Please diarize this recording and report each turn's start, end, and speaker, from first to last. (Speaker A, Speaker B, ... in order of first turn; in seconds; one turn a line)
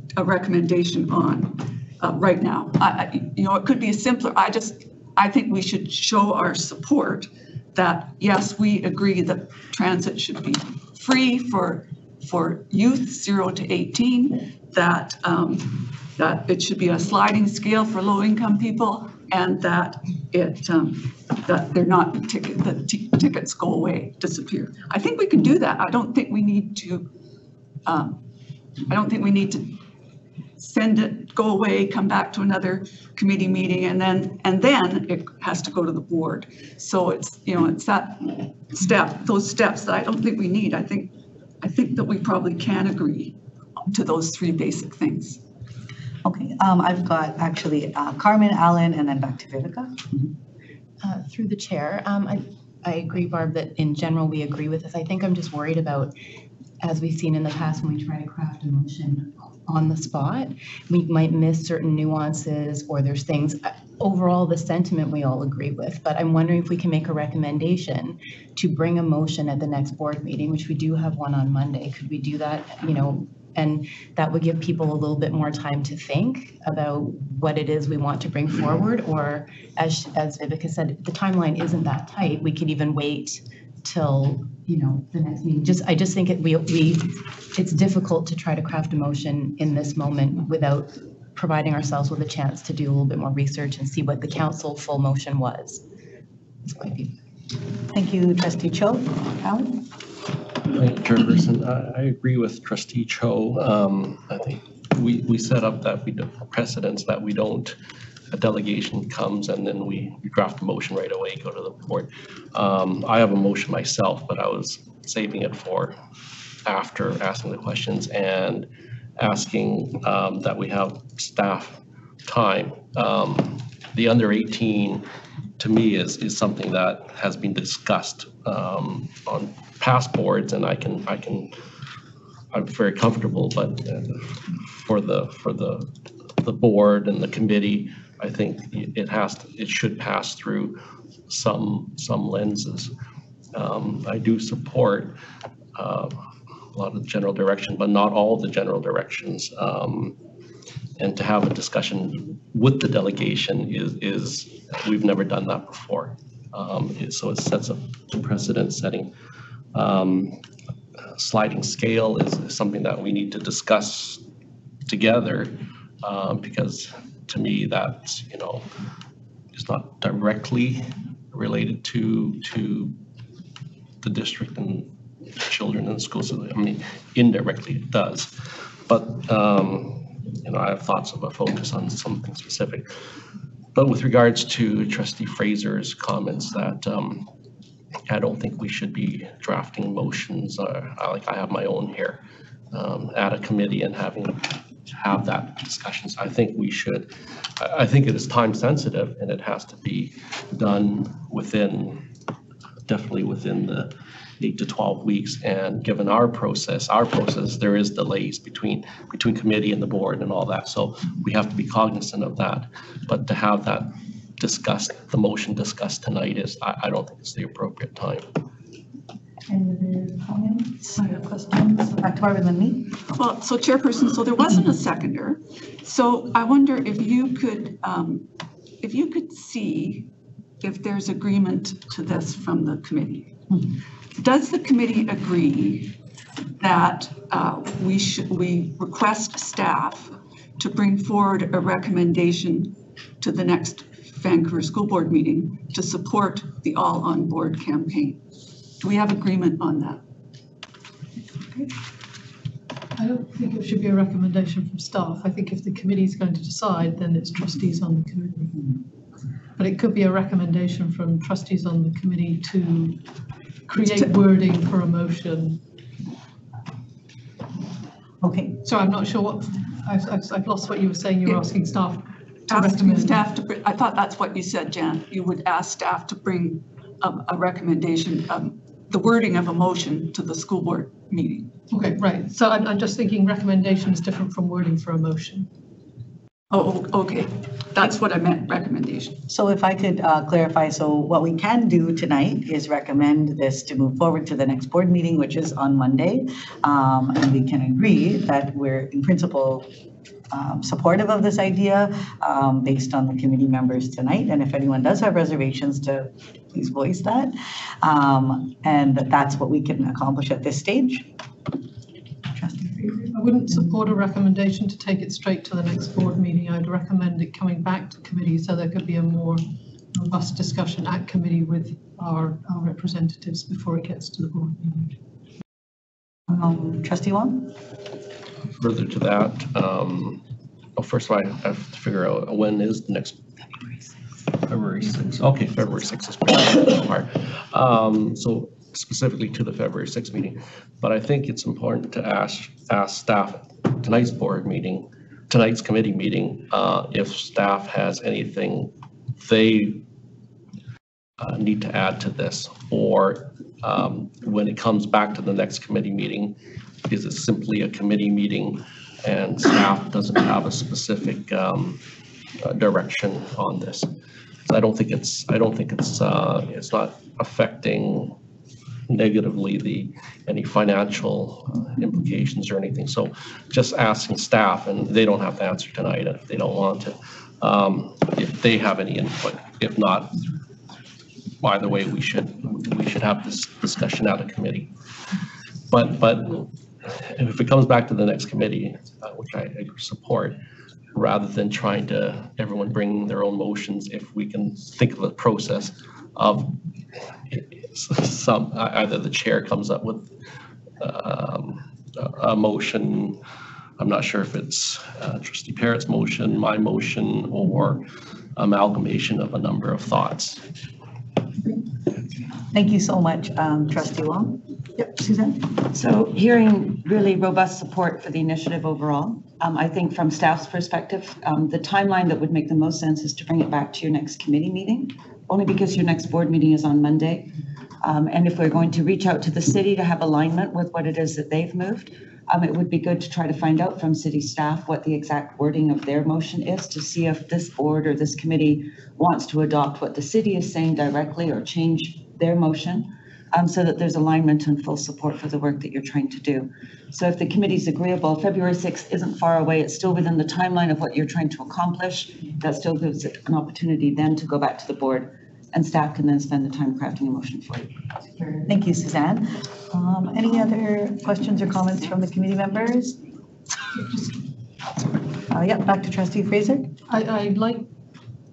Speaker A: 0.1-27.1
Speaker A: 27.9-28.2
Speaker A: 28.9-29.8
Speaker A: 30.6-43.4
Speaker A: 43.9-45.4
Speaker B: 46.2-50.1
Speaker C: 51.0-56.1
Speaker C: 56.8-95.8
Speaker C: 96.7-97.1
Speaker B: 97.9-99.8
Speaker D: 100.7-107.8
Speaker D: 108.3-116.0
Speaker D: 116.6-125.0
Speaker D: 125.6-131.5
Speaker D: 132.5-142.9
Speaker D: 143.5-145.2
Speaker D: 145.8-146.2
Speaker D: 146.7-150.2
Speaker D: 151.0-159.1
Speaker D: 159.7-160.4
Speaker D: 161.1-164.2
Speaker D: 164.9-168.7
Speaker D: 169.5-173.0
Speaker D: 174.0-178.3
Speaker D: 178.9-182.9
Speaker D: 183.7-187.3
Speaker D: 188.1-192.2
Speaker D: 192.7-202.0
Speaker D: 202.9-218.3
Speaker B: 219.5-223.0
Speaker A: 223.1-228.3
Speaker A: 228.8-230.1
Speaker A: 230.6-233.3
Speaker A: 234.2-235.9
Speaker A: 236.6-248.2
Speaker A: 248.8-250.0
Speaker E: 253.0-258.6
Speaker E: 259.6-263.0
Speaker E: 263.7-265.6
Speaker B: 268.2-268.6
Speaker E: 268.6-273.2
Speaker A: 272.5-281.5
Speaker E: 281.7-285.5
Speaker A: 286.5-289.2
Speaker B: 289.3-299.7
Speaker B: 300.3-311.1
Speaker B: 312.3-313.7
Speaker E: 313.1-319.4
Speaker E: 319.9-324.9
Speaker B: 326.3-327.5
Speaker D: 328.6-330.2
Speaker D: 330.8-333.2
Speaker D: 334.4-349.8
Speaker D: 351.2-356.4
Speaker D: 356.9-361.8
Speaker D: 362.4-363.9
Speaker D: 364.4-368.2
Speaker D: 368.9-380.2
Speaker D: 381.4-384.7
Speaker D: 385.7-390.4
Speaker D: 390.9-396.6
Speaker D: 397.3-400.1
Speaker D: 400.8-403.2
Speaker D: 403.8-407.8
Speaker D: 408.4-410.4
Speaker B: 412.5-415.5
Speaker F: 415.7-458.4
Speaker B: 458.5-463.0
Speaker B: 465.3-466.7
Speaker E: 466.9-467.7